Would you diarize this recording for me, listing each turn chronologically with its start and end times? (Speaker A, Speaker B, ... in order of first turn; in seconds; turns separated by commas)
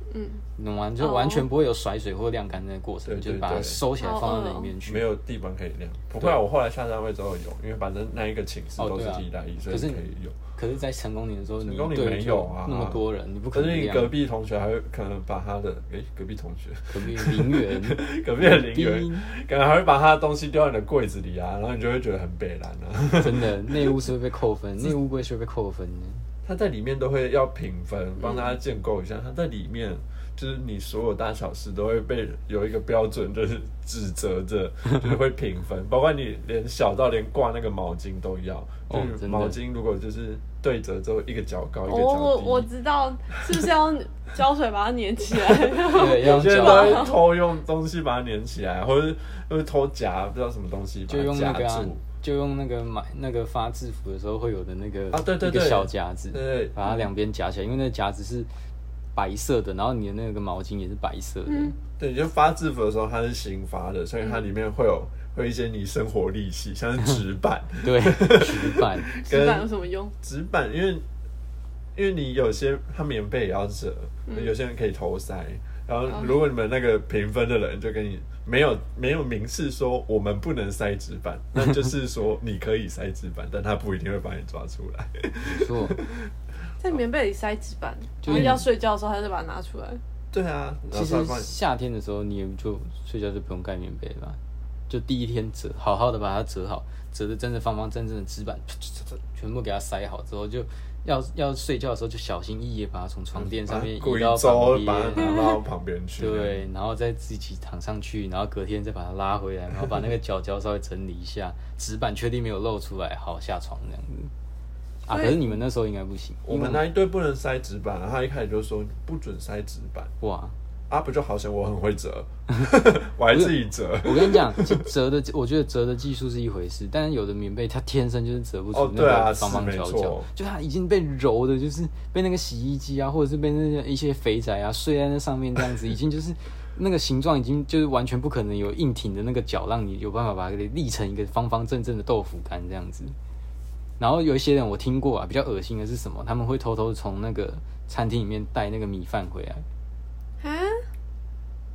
Speaker A: 0.1-0.4, Speaker B: 0.6-5.1, Speaker A: 1.0-1.5, Speaker C: 3.1-3.8, Speaker A: 4.0-4.8, Speaker C: 4.8-10.4, Speaker B: 8.8-10.0, Speaker B: 10.6-14.1, Speaker C: 11.6-24.0, Speaker B: 16.9-19.3, Speaker B: 23.2-26.3, Speaker C: 26.4-42.7, Speaker A: 28.2-28.5, Speaker B: 38.9-39.6, Speaker A: 41.9-47.2, Speaker B: 45.8-47.2, Speaker C: 46.0-52.0, Speaker B: 51.1-58.5, Speaker C: 55.1-56.8, Speaker B: 59.1-61.8, Speaker A: 61.5-61.8, Speaker C: 62.0-69.7, Speaker B: 67.8-69.1, Speaker A: 69.2-70.1, Speaker C: 70.2-71.0, Speaker C: 72.0-86.3, Speaker B: 85.4-86.0, Speaker A: 86.8-90.0, Speaker B: 88.2-88.7, Speaker C: 88.3-88.6, Speaker C: 90.3-91.5, Speaker B: 90.9-105.4, Speaker C: 103.3-106.6, Speaker B: 106.2-114.3, Speaker B: 115.1-116.8, Speaker A: 115.1-115.5, Speaker C: 116.5-120.1, Speaker B: 120.2-120.6, Speaker C: 120.9-124.9, Speaker B: 123.3-143.2, Speaker C: 128.7-130.3, Speaker B: 144.0-149.6, Speaker A: 150.4-150.8